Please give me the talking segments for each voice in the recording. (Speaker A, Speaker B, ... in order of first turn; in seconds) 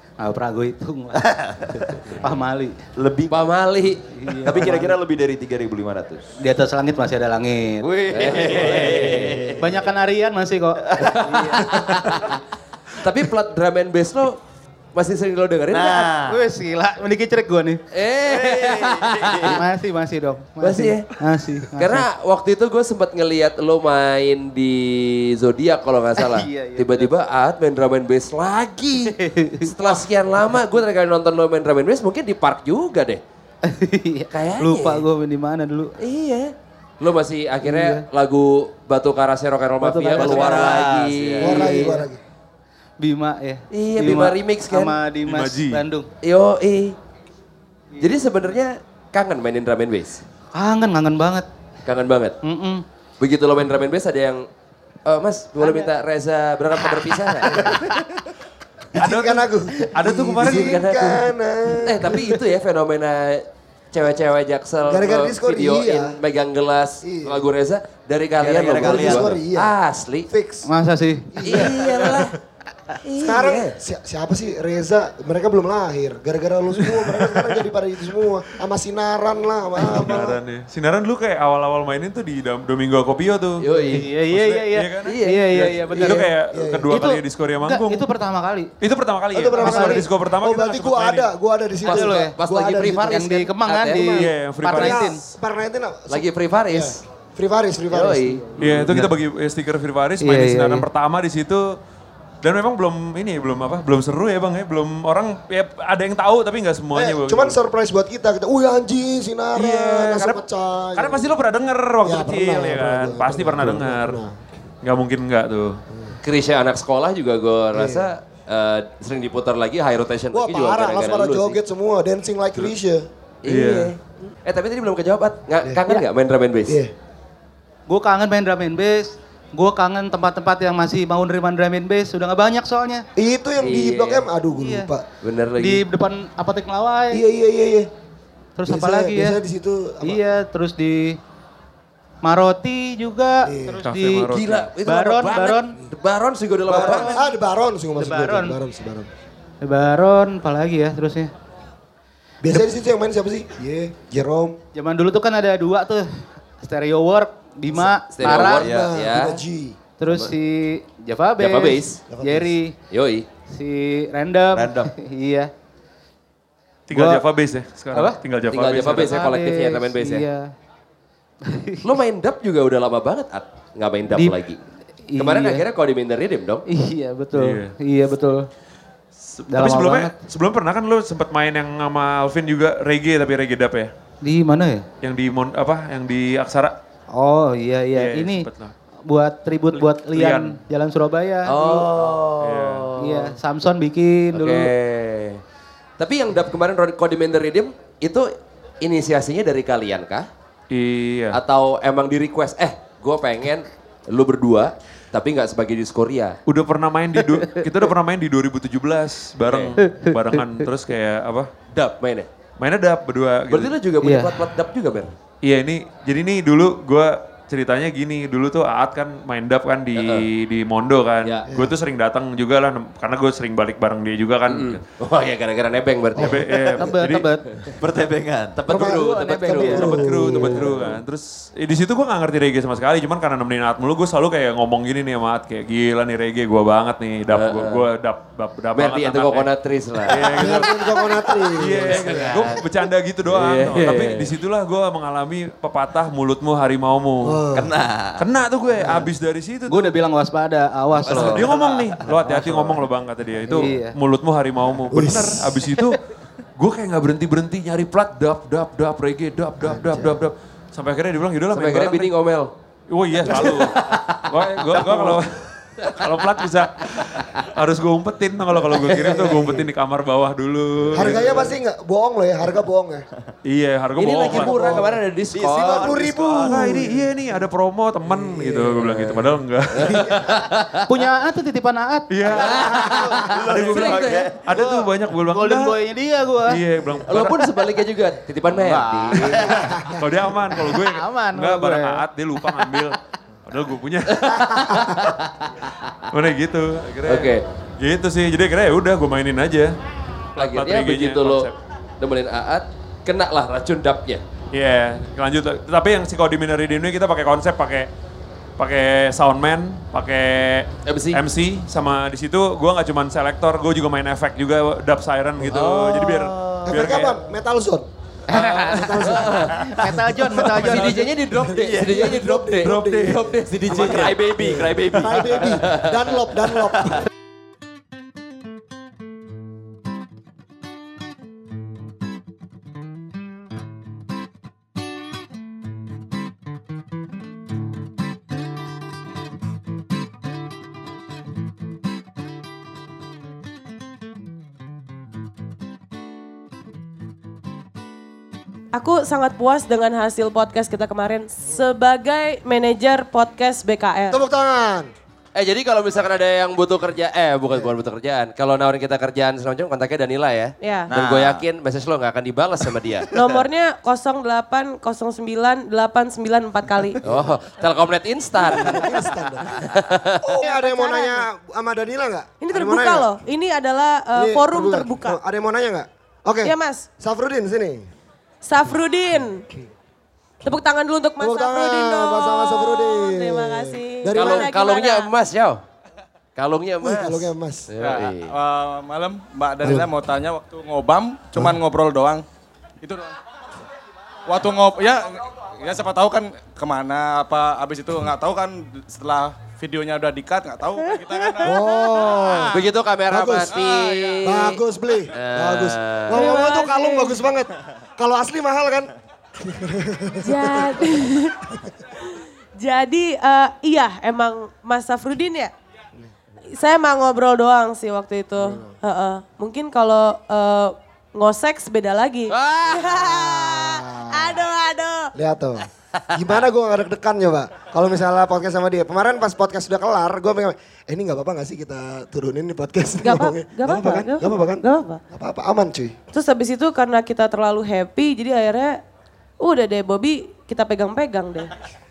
Speaker A: 0.2-1.2, 2.2-2.7, 4.2-5.0, 6.4-12.0, 16.2-17.8, 19.4-22.0, 26.2-27.1, 29.2-30.0, 33.7-35.9, 37.6-38.0, 39.8-40.6, 41.6-42.0, 43.0-46.1, 50.5-51.5, 52.4-52.8, 55.6-55.9, 70.7-71.3, 83.9-86.3, 86.9-88.7, 89.5-90.1, 91.9-92.3, 93.0-95.2, 98.6-99.1, 100.2-100.8, 127.9-133.0, 134.5-134.9, 135.6-137.2, 138.6-139.4, 140.0-141.2, 142.2-145.8, 146.9-147.2, 148.0-148.6, 149.6-151.3, 154.7-158.7, 160.0-162.7, 163.5-165.5, 166.9-167.3, 167.9-168.2, 168.8-170.5, 171.4-171.8, 174.1-174.4, 175.1-175.7, 176.7-178.5, 179.5-180.2, 184.2-184.8, 187.1-188.5, 189.1-192.1, 193.0-194.7, 209.8-210.2, 214.0-214.4, 226.7-227.4, 249.7-251.6, 253.4-253.9, 280.9-282.3, 284.5-286.6, 290.5-292.7, 318.3-321.2
Speaker B: 1.1-2.2, 3.0-3.5, 4.4-6.2, 7.8-9.9, 11.0-11.6, 15.7-16.4, 18.2-19.6, 40.1-41.7, 68.4-69.3, 158.3-158.9, 164.5-164.9, 227.8-230.2, 247.5-248.2, 251.0-252.0, 275.3-276.9, 283.0-284.4, 288.6-289.3, 321.6-322.0, 323.7-325.6, 360.9-361.4
Speaker C: 3.3-4.0, 8.1-9.5, 11.1-12.3, 13.0-14.4, 14.9-16.1, 17.9-19.6, 20.6-21.1, 21.8-33.2, 34.3-35.0, 36.0-41.9, 43.7-45.0, 46.2-47.0, 48.0-50.2, 51.9-52.3, 53.2-54.5, 55.0-57.8, 60.4-61.3, 61.8-70.3, 71.4-72.3, 73.0-73.8, 83.6-84.1, 85.0-85.8, 91.8-94.3, 96.1-97.0, 97.9-99.0, 116.2-121.6, 123.4-126.8, 133.6-134.3, 135.2-135.8, 144.3-147.2, 158.1-159.4, 161.1-162.0, 162.9-163.2, 168.5-170.2, 171.8-174.6, 175.2-176.6, 191.4-193.3, 194.3-195.4, 196.0-198.3, 198.8-200.3, 201.3-206.4, 209.4-209.8, 211.8-212.3, 213.5-215.1, 219.9-220.3, 224.5-226.7, 228.6-230.0, 237.3-237.8, 238.7-240.6, 241.8-242.6, 243.3-244.3, 261.5-262.5, 264.7-265.2, 274.0-276.1, 278.8-280.8, 282.3-284.3, 287.1-289.5, 294.1-295.7, 297.1-297.4, 300.4-304.2, 310.9-311.2, 315.5-316.7, 318.8-319.5, 320.6-324.1, 355.3-363.1, 367.0-368.9, 369.7-370.2, 384.1-385.6, 386.4-388.3, 402.5-406.2, 422.3-423.0
Speaker D: 41.4-42.2, 59.0-62.2, 64.8-66.2, 67.0-67.5, 68.7-69.7, 70.3-70.7, 71.3-72.2, 73.2-80.4, 86.5-86.9, 89.3-93.3, 94.7-98.5, 106.9-111.3, 112.0-114.3, 117.7-118.1, 120.3-123.0, 125.6-125.9, 126.7-126.9, 133.2-135.0, 137.1-137.9, 138.7-140.2, 143.4-143.8, 146.7-149.1, 152.4-154.6, 158.2-159.8, 162.1-162.5, 221.5-221.8, 228.7-230.8, 240.4-242.0, 247.2-247.7, 254.9-255.6, 259.6-260.2, 263.2-263.7, 268.8-269.7, 270.9-273.0, 274.2-275.0, 275.5-277.1, 278.1-278.7, 289.5-290.0, 316.7-317.9, 318.7-319.5, 321.3-327.0, 354.1-354.9, 368.6-369.6, 370.4-373.1, 374.1-377.9, 381.2-384.5, 386.8-387.7, 389.6-389.9, 401.4-402.6, 403.1-403.5, 404.2-410.8, 418.4-418.8, 423.5-424.4, 425.1-435.9
Speaker E: 45.2-45.8, 59.0-60.7, 77.0-77.4, 79.8-83.6, 84.3-88.1, 88.8-91.3, 94.2-95.1, 98.6-101.6, 102.4-107.6, 109.5-110.4, 110.9-114.2, 114.8-115.8, 123.5-123.9, 143.8-144.7, 166.9-169.2, 177.3-177.7, 179.2-183.9, 185.0-186.7, 187.9-188.7, 189.7-190.6, 192.4-192.9, 200.7-201.4, 206.4-211.7, 212.6-213.7, 215.4-224.8, 226.2-227.3, 229.7-239.5, 240.0-247.4, 248.2-250.0, 251.1-256.0, 256.6-262.1, 262.9-271.4, 273.4-274.8, 276.4-280.4, 282.1-285.8, 286.5-287.5, 289.4-295.1, 296.1-299.7, 300.4-301.5, 304.5-307.9, 308.6-317.2, 322.7-323.4
Speaker F: 348.7-354.2, 360.6-360.9, 363.1-367.0, 370.4-371.2, 372.4-375.2, 376.4-376.9, 378.4-379.4, 380.4-385.1, 400.8-401.8, 406.1-407.3, 410.2-411.4, 412.6-415.5, 416.5-425.1, 433.0-435.0, 436.1-438.8, 439.4-441.5
Speaker G: 387.8-392.2, 392.8-393.1, 394.3-401.5, 402.1-402.4, 403.6-404.1